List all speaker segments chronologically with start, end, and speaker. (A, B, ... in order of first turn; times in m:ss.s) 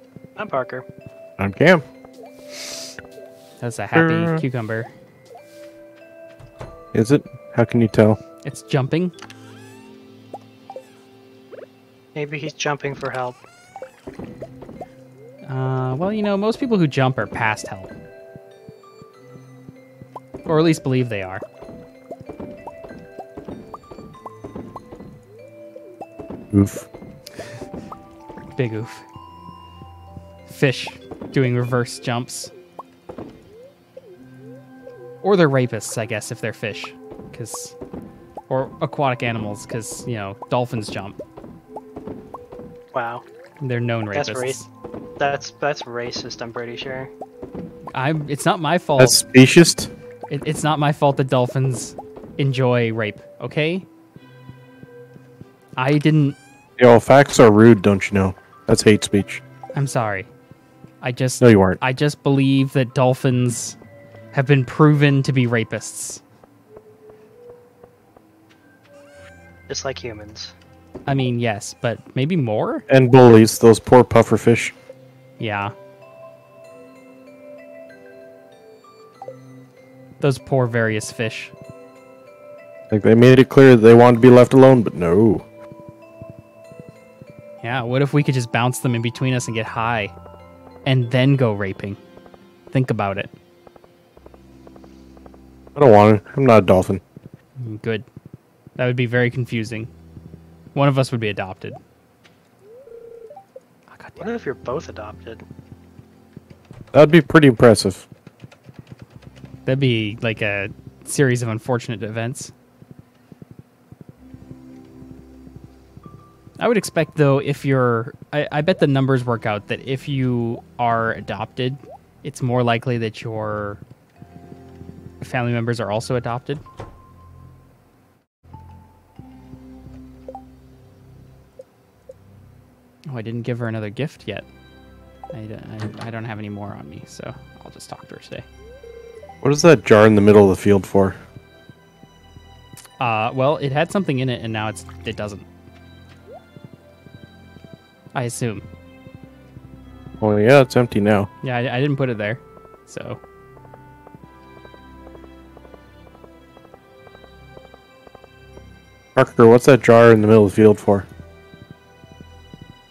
0:00.4-0:00.8 A
0:01.4-0:01.8 B
0:03.6-0:04.9 C
0:04.0-0:04.4 B
0:06.9-0:08.2 B
0:08.4-0:09.1 C
0:12.2-0:13.4 A
0:15.5-0:17.9 C
0:20.4-0:21.4 C
0:26.5-0:26.9 B
0:28.5-0:29.1 C
0:30.5-0:32.5 C
0:35.2-0:37.8 C
0:38.5-0:41.2 C
0:42.9-0:43.2 A
0:43.6-0:44.7 C
0:44.1-0:44.6 A
0:45.2-0:47.1 A
0:47.9-0:49.2 C
0:49.0-0:49.9 B
0:50.3-0:53.9 C
0:55.8-0:56.4 C
0:56.8-0:59.4 B
0:59.8-1:00.3 C
1:01.0-1:03.8 C
1:01.4-1:01.8 B
1:04.3-1:06.2 C
1:09.7-1:10.5 A
1:11.1-1:12.9 C
1:12.9-1:14.7 B
1:15.4-1:15.7 C
1:20.2-1:21.5 C
1:22.9-1:25.5 B
1:27.6-1:30.2 C
1:30.9-1:32.0 C
1:32.7-1:33.3 C
1:35.8-1:37.0 B
1:37.6-1:38.1 C
1:38.8-1:39.9 C
1:40.8-1:41.8 C
1:43.9-1:44.3 C
1:44.2-1:45.4 A
1:46.9-1:48.1 B
1:49.7-1:52.5 C
1:56.6-2:03.8 C
2:05.2-2:06.6 C
2:13.1-2:14.5 C
2:15.3-2:18.5 C
2:19.4-2:21.2 B
2:23.0-2:25.5 C
2:28.1-2:28.6 C
2:30.2-2:31.3 B
2:31.4-2:33.2 C
2:39.2-2:41.1 B